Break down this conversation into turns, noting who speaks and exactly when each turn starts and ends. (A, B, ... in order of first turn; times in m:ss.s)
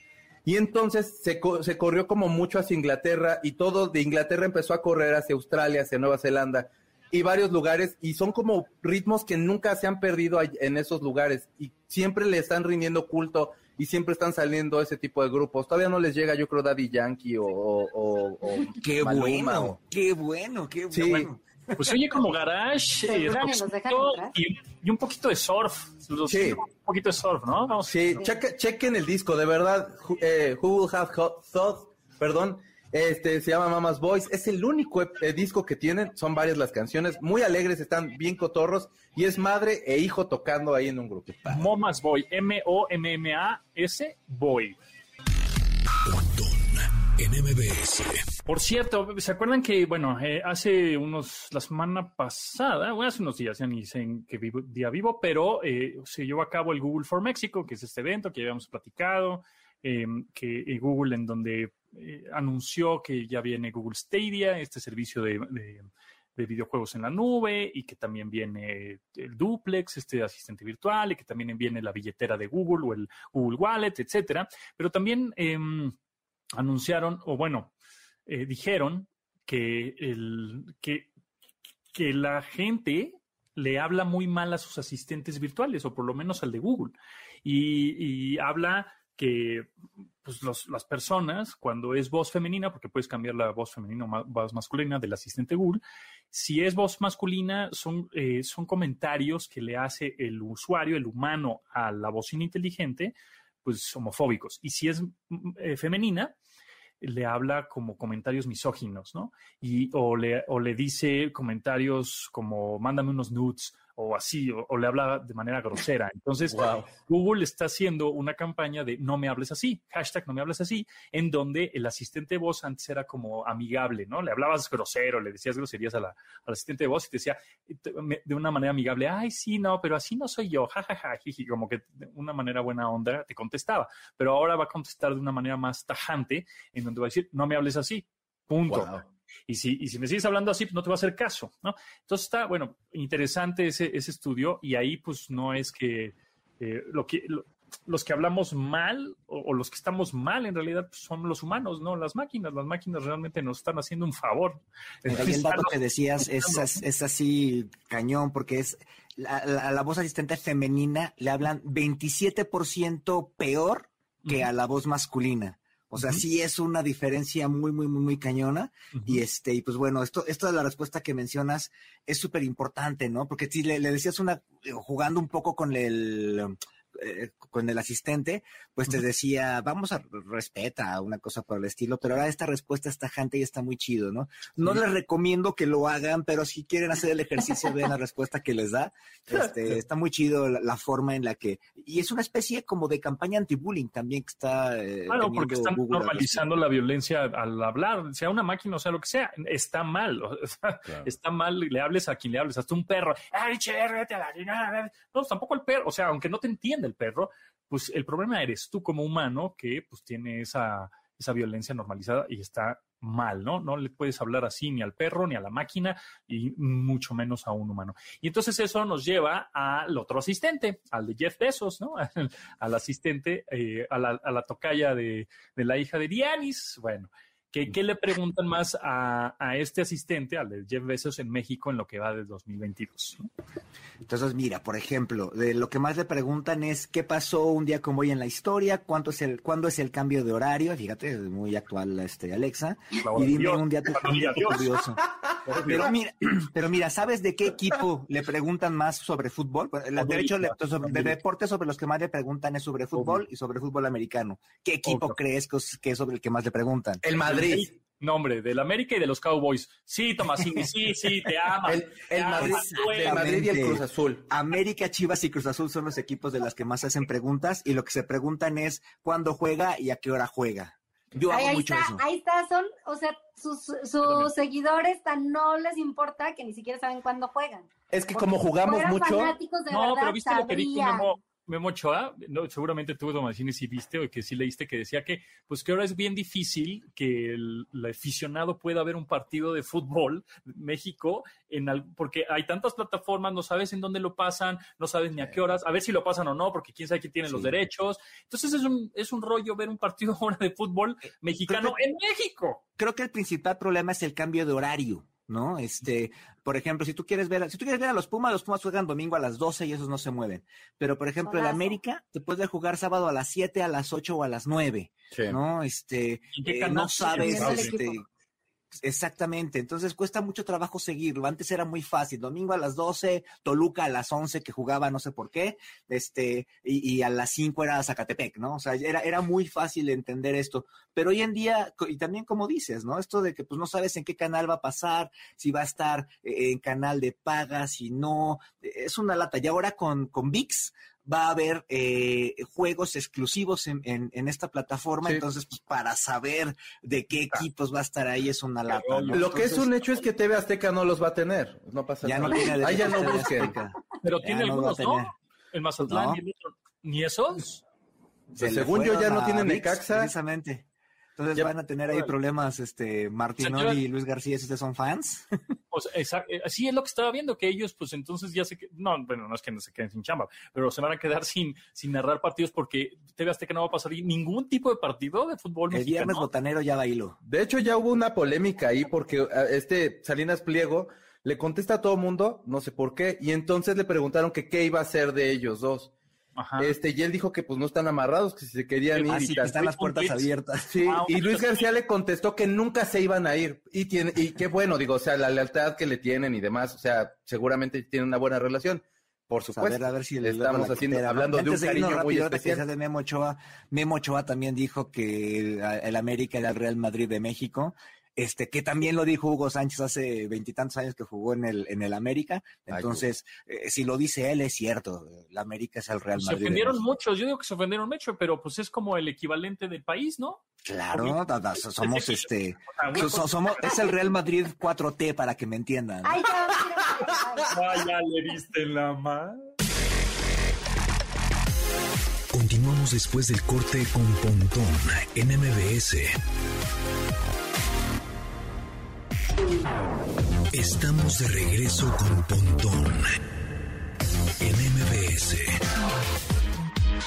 0:00.4-0:19.8 A
0:18.8-0:21.9 B
0:20.9-0:21.3 A
0:21.1-0:28.2 C
0:23.0-0:24.3 D
0:26.3-0:26.6 A
0:27.9-0:41.7 A
0:41.5-0:44.8 C
0:46.0-0:48.3 E
0:48.5-1:15.9 C
1:16.5-1:17.7 C
1:18.3-1:21.1 C
1:21.9-1:29.7 C
1:30.2-1:46.4 C
1:47.0-2:18.9 C
1:56.5-1:56.9 A
2:18.7-2:19.0 A
2:19.5-2:36.8 C
2:35.0-3:16.5 B
2:46.0-2:46.2 C
2:48.9-2:49.2 C
3:15.1-3:53.3 C
3:54.0-4:05.1 B
4:03.0-4:04.8 C
4:05.4-4:05.9 C
4:05.6-4:17.0 B
4:10.0-4:11.2 C
4:14.8-4:15.2 C
4:17.0-4:17.7 A
4:17.2-4:23.3 C
4:21.6-4:24.2 A
4:22.4-4:32.0 B
4:31.3-4:41.1 D
4:37.9-4:39.3 A
4:39.7-5:02.6 C
4:57.3-4:57.6 B
5:01.5-5:01.8 B
5:02.8-5:18.0 B
5:11.2-5:11.8 D
5:15.1-5:15.4 A
5:16.3-5:17.7 C
5:17.1-5:18.0 D
5:18.8-5:49.9 B
5:48.7-5:49.2 C
5:49.1-5:53.6 A
5:52.0-5:55.1 B
5:54.0-5:57.6 C
5:55.8-5:56.2 B
5:58.3-6:00.1 A
5:58.3-6:05.3 B
6:03.4-6:03.8 C
6:05.7-6:16.3 C
6:15.7-6:17.2 B
6:17.2-6:25.9 A
6:26.4-6:26.8 C
6:26.6-6:29.3 A
6:28.9-6:30.3 C
6:29.0-6:30.8 B
6:30.7-6:42.6 A
6:30.8-6:31.7 C
6:39.5-6:56.8 B
6:52.7-6:53.0 A
6:56.2-7:03.9 C
7:00.6-7:06.3 B
7:06.0-7:07.5 D
7:07.5-7:09.4 C
7:12.3-7:16.2 E
7:20.5-7:23.2 E
7:24.4-7:25.6 E